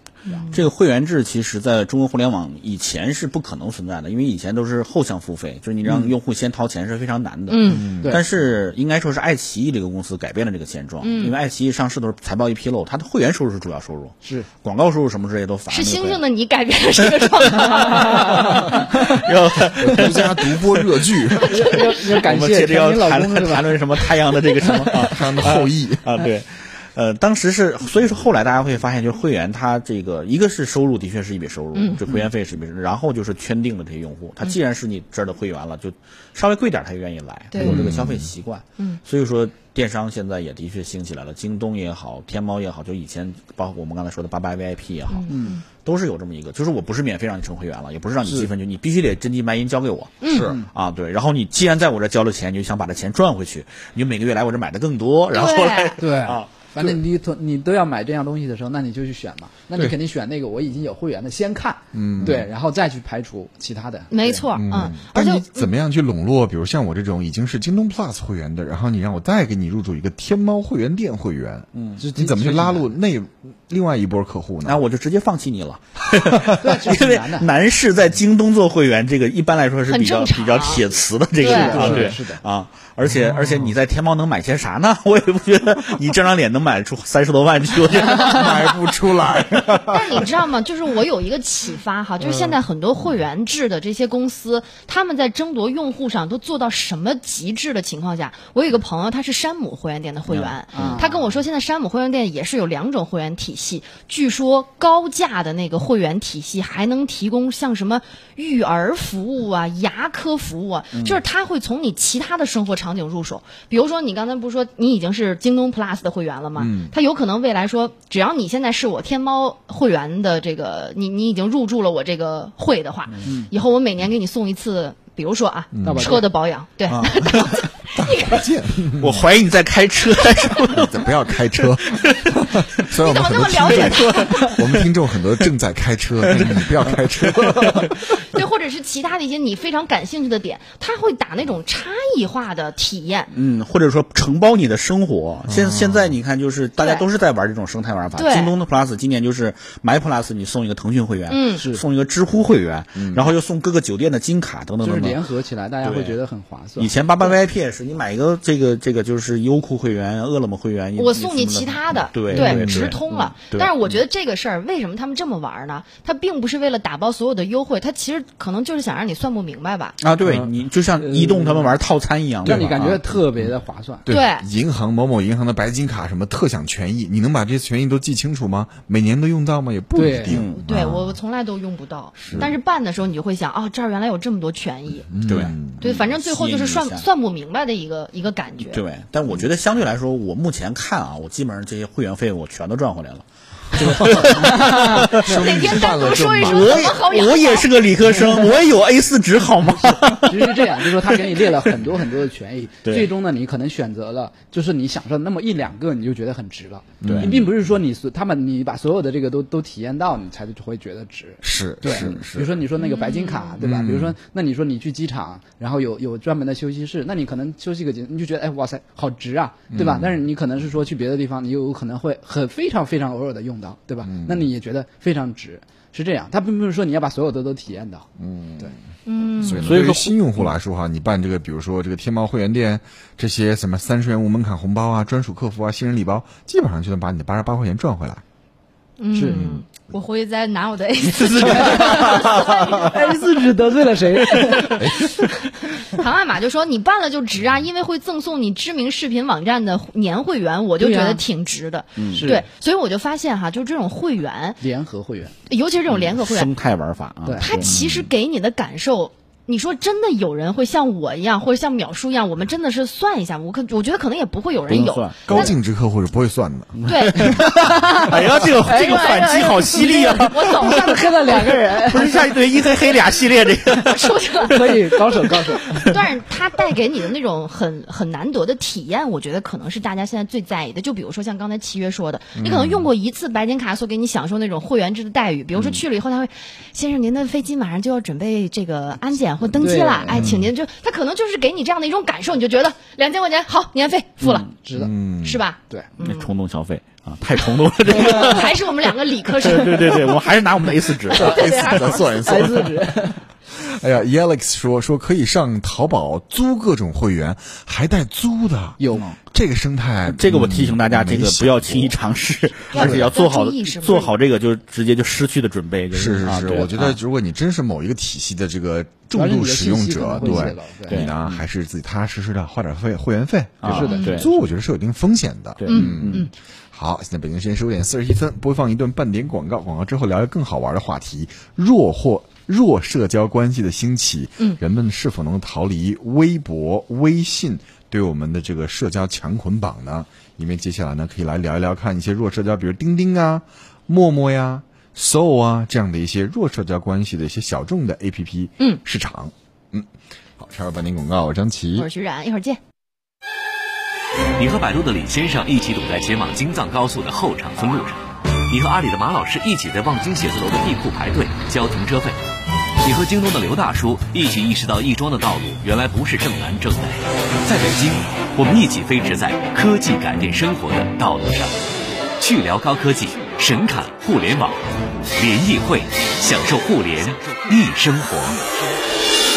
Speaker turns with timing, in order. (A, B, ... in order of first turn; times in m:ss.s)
0:00.2-0:00.6 A
0:00.5-0:16.2 B
0:07.5-0:07.9 A
0:07.7-0:08.2 C
0:11.0-0:11.3 A
0:14.2-0:14.5 D
0:15.7-0:18.8 A
0:17.2-0:21.2 B
0:18.0-0:18.8 D
0:19.8-0:21.7 C
0:21.4-0:25.1 D
0:21.6-0:21.9 A
0:21.9-0:56.7 B
0:25.0-0:26.0 C
0:31.7-0:32.0 A
0:37.5-0:37.8 A
0:37.6-0:38.3 C
0:45.1-0:45.6 A
0:45.3-0:45.6 D
0:48.2-0:48.5 D
0:50.2-0:50.5 A
0:50.3-0:50.6 C
0:55.3-0:56.0 A
0:56.0-1:04.5 D
1:01.9-1:02.5 C
1:04.1-1:05.7 A
1:04.5-1:14.8 C
1:11.7-1:12.0 B
1:12.0-1:12.9 D
1:14.6-1:28.8 B
1:16.5-1:17.5 D
1:19.9-1:22.0 A
1:21.4-1:22.4 D
1:21.8-1:22.1 C
1:23.0-1:23.7 C
1:28.0-1:30.3 C
1:29.8-2:08.4 A
1:32.2-1:32.5 C
1:40.3-1:41.0 B
1:40.7-1:41.2 D
1:56.6-1:56.9 C
2:03.2-2:03.5 D
2:05.7-2:06.2 C
2:05.8-2:06.3 D
2:06.9-2:07.6 B
2:07.9-2:09.2 C
2:09.0-2:12.5 B
2:10.7-2:18.0 C
2:12.9-2:14.6 A
2:13.6-2:15.4 B
2:16.2-2:17.9 B
2:18.2-2:23.3 A
2:23.3-2:35.2 B
2:25.5-2:26.1 C
2:26.8-2:27.0 A
2:28.2-2:28.5 A
2:31.3-2:31.6 A
2:31.6-2:31.8 D
2:33.0-2:33.3 C
2:34.8-2:36.9 D
2:35.8-2:36.2 B
2:36.8-2:43.7 B
2:41.0-2:50.0 A
2:42.3-2:42.6 D
2:42.6-2:42.9 C
2:50.0-2:53.0 B
2:51.0-2:51.7 D
2:52.4-2:53.5 C
2:52.4-2:54.1 D
2:54.0-3:01.2 C
2:54.1-2:54.4 A
3:00.0-3:00.4 D
3:00.3-3:00.6 B
3:00.6-3:05.1 A
3:02.2-3:02.5 C
3:05.1-3:05.8 C
3:05.2-3:07.0 B
3:05.8-3:08.8 A
3:08.7-3:15.5 B
3:13.8-3:16.9 C
3:14.0-3:15.0 D
3:15.1-3:17.8 A
3:16.4-3:21.7 B
3:20.2-3:48.1 D
3:22.8-3:23.1 B
3:27.0-3:27.5 C
3:27.0-3:27.4 B
3:31.4-3:32.6 C
3:31.9-3:32.2 B
3:32.8-3:33.6 A
3:33.6-3:34.2 C
3:39.7-3:40.2 C
3:44.0-3:44.5 C
3:48.2-3:48.8 C
3:49.0-3:49.7 A
3:49.4-3:58.2 C
3:49.5-3:50.5 B
3:59.0-4:03.2 A
3:59.1-3:59.4 D
3:59.2-3:59.6 C
4:01.1-4:02.6 B
4:01.4-4:04.9 D
4:04.3-4:14.6 A
4:10.8-4:11.2 D
4:12.0-4:12.3 B
4:12.1-4:12.4 D
4:14.6-4:15.3 D
4:15.5-4:16.5 A
4:15.9-4:17.7 B
4:17.2-4:17.5 D
4:17.4-4:25.5 A
4:17.6-4:18.1 C
4:24.7-4:25.5 B
4:25.2-4:26.8 C
4:26.7-4:35.0 B
4:26.8-4:29.7 A
4:27.2-4:32.3 D
4:30.3-4:31.5 A
4:33.8-4:34.7 A
4:34.4-4:36.0 D
4:35.7-4:54.5 A
4:42.4-4:42.9 C
4:49.6-4:50.3 D
4:50.1-4:50.4 C
4:54.2-4:54.5 B
4:54.6-4:55.0 D
4:54.7-4:55.4 C
4:55.2-4:56.3 A
4:56.0-4:58.7 B
4:57.9-5:00.2 A
4:59.4-5:01.9 B
5:01.1-5:02.4 A
5:01.1-5:02.9 C
5:02.2-5:03.2 D
5:03.6-5:12.0 C
5:08.8-5:09.1 D
5:10.1-5:17.0 B
5:12.7-5:14.1 A
5:12.8-5:13.1 C
5:15.9-5:51.9 C
5:19.1-5:21.1 D
5:20.2-5:21.4 B
5:23.6-5:24.3 B
5:23.6-5:24.3 D
5:23.8-5:24.2 A
5:25.6-5:26.3 B
5:25.7-5:26.3 A
5:51.8-5:52.6 A
5:54.4-6:02.2 E
6:02.8-6:18.4 E